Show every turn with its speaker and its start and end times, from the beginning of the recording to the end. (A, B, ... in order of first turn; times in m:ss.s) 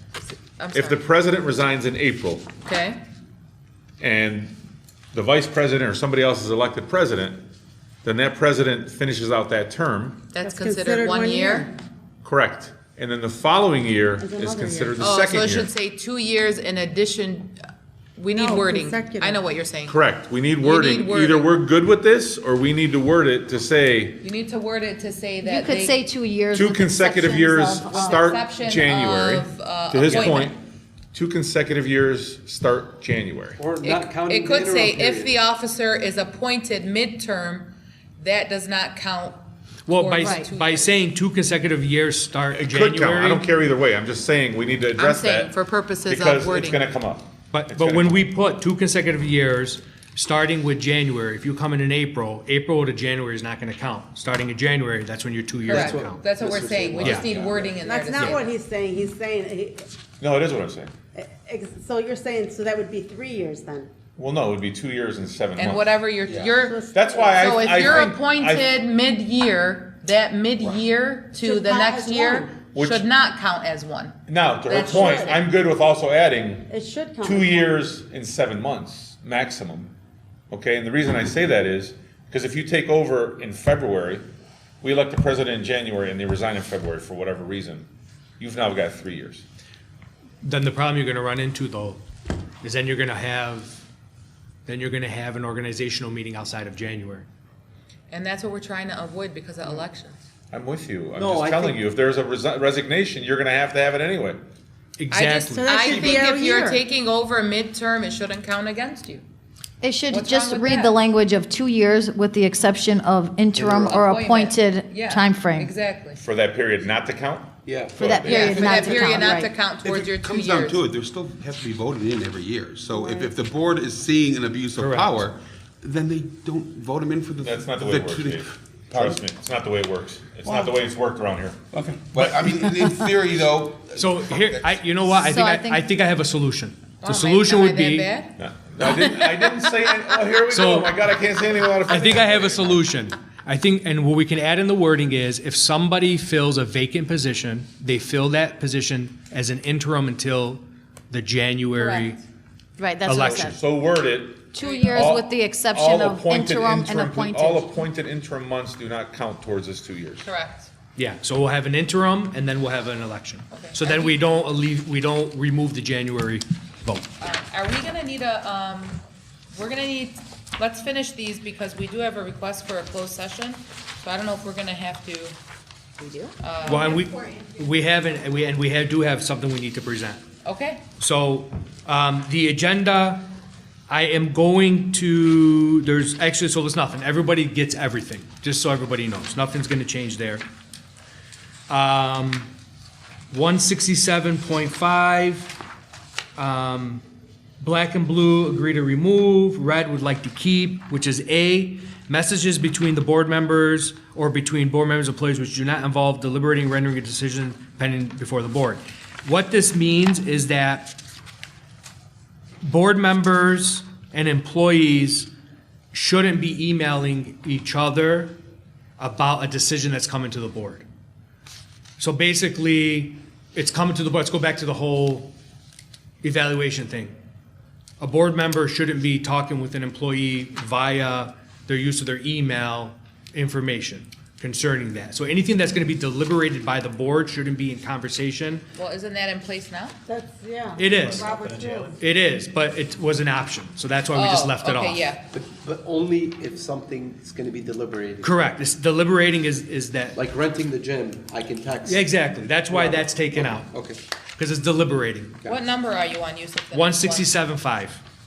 0:00.3-0:01.0 A
0:00.7-0:02.5 B
0:02.6-0:03.0 A
0:04.0-0:04.6 B
0:05.1-0:07.4 B
0:08.0-0:10.2 B
0:10.3-0:11.7 A
0:10.4-0:11.7 C
0:12.2-0:15.7 B
0:14.2-0:15.3 C
0:15.0-0:17.6 A
0:18.2-0:20.0 A
0:18.3-0:19.4 C
0:19.9-0:24.2 B
0:20.6-0:21.5 A
0:24.2-0:26.0 A
0:25.4-0:28.3 D
0:26.5-0:30.6 B
0:27.9-0:30.6 A
0:31.1-0:33.6 B
0:33.6-0:35.3 E
0:33.8-0:41.0 A
0:39.9-0:43.5 F
0:40.2-0:40.5 D
0:42.5-0:45.5 B
0:45.0-0:46.8 A
0:46.1-0:48.3 B
0:47.5-0:56.3 F
0:55.6-0:58.6 A
0:55.7-0:58.3 E
0:57.8-0:59.9 C
1:00.2-1:00.9 B
1:01.2-1:03.9 C
1:04.2-1:05.9 B
1:05.6-1:15.4 A
1:06.3-1:06.5 G
1:06.6-1:08.1 C
1:06.9-1:08.7 B
1:11.4-1:12.5 C
1:12.7-1:13.1 B
1:14.3-1:16.7 B
1:14.8-1:15.3 C
1:16.7-1:17.7 C
1:17.2-1:19.9 B
1:20.5-1:24.3 B
1:24.8-1:27.9 B
1:28.4-1:29.4 B
1:30.4-1:32.0 F
1:32.6-1:33.8 F
1:34.7-1:37.3 F
1:38.1-1:40.2 A
1:40.5-1:44.4 B
1:41.2-1:41.8 E
1:45.0-1:45.8 F
1:45.1-1:49.2 A
1:45.5-1:46.8 C
1:49.8-1:55.7 D
1:50.1-1:51.0 A
1:53.6-1:54.1 E
1:53.9-1:56.2 A
1:56.2-1:58.8 B
1:57.7-1:59.3 E
1:58.0-1:59.5 D
1:58.2-2:00.8 A
1:59.8-2:09.2 G
2:03.0-2:03.3 C
2:04.8-2:05.2 F
2:07.4-2:11.6 B
2:10.5-2:10.7 G
2:11.7-2:14.9 G
2:14.0-2:18.1 F
2:15.3-2:16.0 D
2:17.0-2:19.5 A
2:18.4-2:22.8 B
2:20.5-2:21.1 F
2:21.8-2:32.2 F
2:31.8-2:32.2 A
2:32.8-2:33.6 D
2:33.0-2:33.4 F
2:33.1-2:40.3 B
2:34.5-2:37.7 D
2:34.6-2:35.1 A
2:40.2-2:40.7 A
2:41.0-2:47.1 F
2:43.5-2:44.2 A
2:47.2-2:49.0 A
2:49.5-2:55.4 A
2:56.0-2:57.6 D
2:56.4-2:57.0 A
2:56.7-3:00.3 F
3:00.4-3:00.9 A
3:01.0-3:03.3 F
3:03.9-3:10.4 F
3:11.7-3:12.5 F
3:13.3-3:15.6 F
3:16.4-3:17.0 F
3:17.6-3:31.0 F
3:32.6-3:35.3 F
3:35.9-3:38.4 F
3:39.0-3:40.8 F
3:42.0-3:45.3 F
3:46.2-3:47.1 F
3:48.0-3:58.7 F
3:58.8-4:00.0 A
4:00.1-4:02.0 C
4:00.8-4:01.2 F
4:01.0-4:01.9 E
4:02.0-4:05.1 F
4:04.1-4:05.2 A
4:05.3-4:08.6 E
4:08.2-4:10.2 F
4:10.1-4:14.0 E
4:11.8-4:13.7 F
4:14.4-4:15.4 F
4:15.4-4:17.3 A
4:16.7-4:18.0 F